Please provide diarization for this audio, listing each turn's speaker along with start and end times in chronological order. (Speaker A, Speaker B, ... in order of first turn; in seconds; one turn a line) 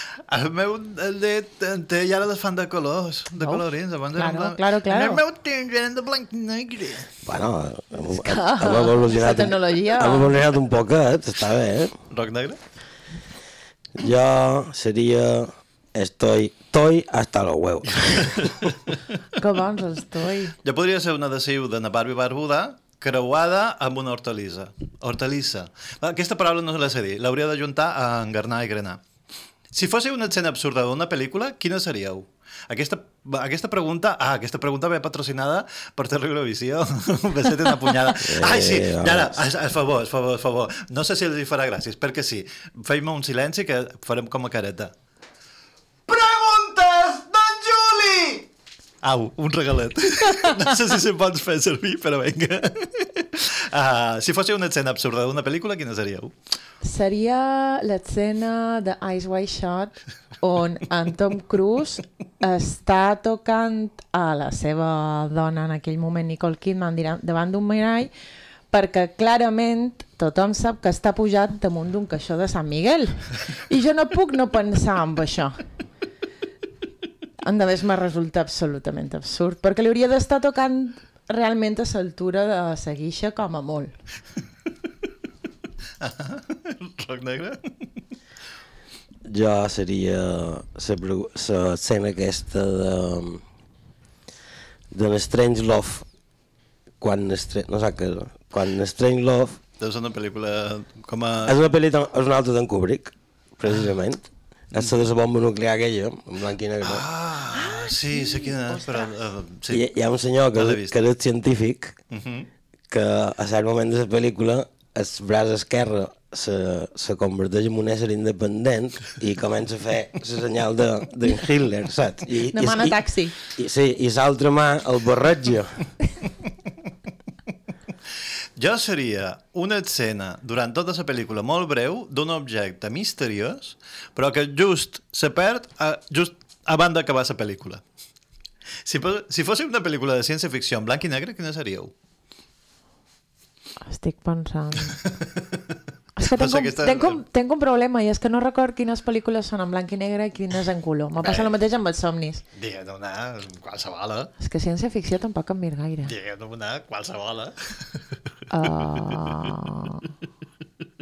Speaker A: 0.3-7.1
Speaker B: 4.2-5.2
Speaker C: 7.2-11.9
Speaker B: 8.1-10.3
Speaker A: 12.1-12.6
Speaker C: 14.0-18.5
Speaker A: 18.2-18.7
Speaker B: 19.4-20.5
Speaker A: 20.6-29.0
Speaker A: 29.7-44.9
Speaker C: 38.2-39.4
Speaker A: 46.1-48.5
Speaker A: 49.0-56.3
Speaker B: 56.8-68.1
Speaker B: 68.7-75.6
Speaker B: 77.4-84.0
Speaker A: 86.0-87.7
Speaker C: 89.2-93.4
Speaker C: 94.9-96.0
Speaker C: 97.0-99.6
Speaker A: 99.8-101.5
Speaker C: 101.5-107.0
Speaker A: 106.8-109.8
Speaker B: 107.5-109.1
Speaker C: 109.7-112.0
Speaker A: 110.5-111.0
Speaker A: 112.1-112.5
Speaker C: 112.9-125.7
Speaker B: 122.5-123.3
Speaker A: 128.6-137.8
Speaker A: 138.8-141.9
Speaker B: 143.9-145.0
Speaker B: 146.2-152.4
Speaker A: 146.3-147.2
Speaker A: 151.2-151.5
Speaker A: 152.6-154.3
Speaker B: 154.4-156.1
Speaker A: 156.1-157.5
Speaker B: 158.5-160.0